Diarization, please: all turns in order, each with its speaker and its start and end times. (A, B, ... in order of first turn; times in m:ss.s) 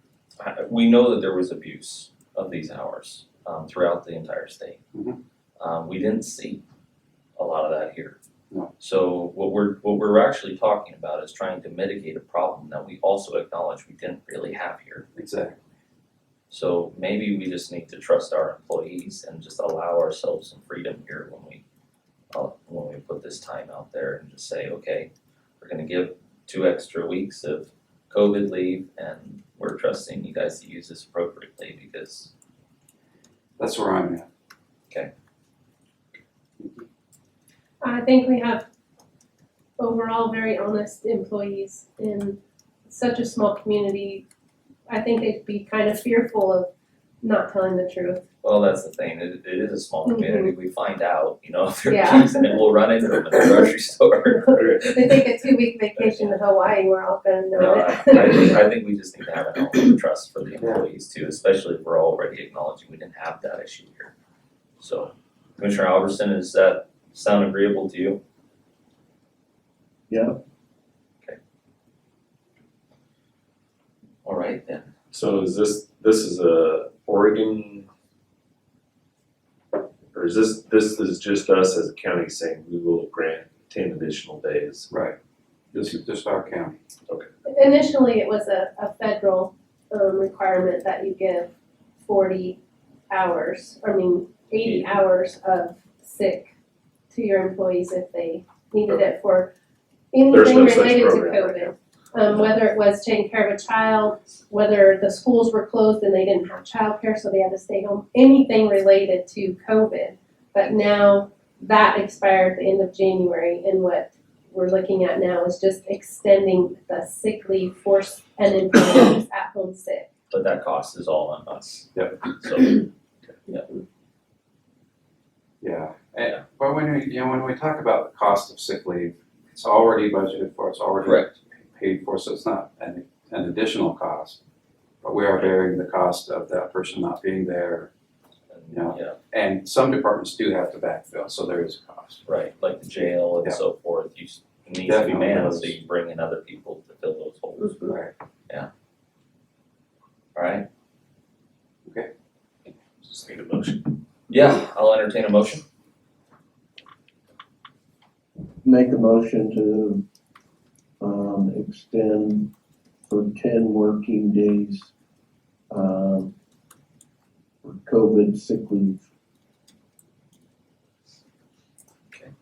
0:00.4-0:04.8 A
0:04.9-0:05.2 B
0:05.6-0:06.6 A
0:07.4-0:08.2 A
0:08.8-0:15.1 A
0:15.2-0:15.6 B
0:16.5-0:21.6 A
0:22.3-0:32.3 A
0:33.6-0:34.3 B
0:36.6-0:36.9 B
0:37.8-0:38.7 C
0:39.8-0:44.3 C
0:44.9-0:46.7 C
0:47.2-0:48.2 C
0:48.4-0:54.8 A
0:50.1-0:50.5 C
0:51.9-0:52.6 C
0:54.3-0:58.5 C
0:54.5-0:54.8 D
0:56.0-0:56.4 A
0:57.6-1:04.1 A
1:00.6-1:00.8 B
1:04.8-1:08.2 A
1:10.1-1:10.4 E
1:14.2-1:14.9 A
1:15.1-1:17.9 D
1:20.1-1:24.9 D
1:24.9-1:25.2 B
1:25.7-1:26.8 B
1:27.5-1:31.5 C
1:32.0-1:32.6 C
1:33.1-1:36.5 C
1:37.1-1:39.5 C
1:40.1-2:00.1 C
1:40.3-1:41.8 D
2:00.3-2:02.9 A
2:05.6-2:14.4 B
2:11.0-2:11.3 A
2:15.0-2:17.9 B
2:18.5-2:19.2 A
2:18.7-2:22.2 B
2:22.3-2:27.9 A
2:24.8-2:25.8 B
2:27.6-2:28.0 C
2:30.4-2:30.7 A
2:33.1-2:33.8 D
2:34.3-2:35.6 A
2:38.6-2:40.0 E
2:41.0-2:42.5 E
2:43.1-2:44.9 E
2:45.7-2:46.3 E
2:47.6-2:49.0 E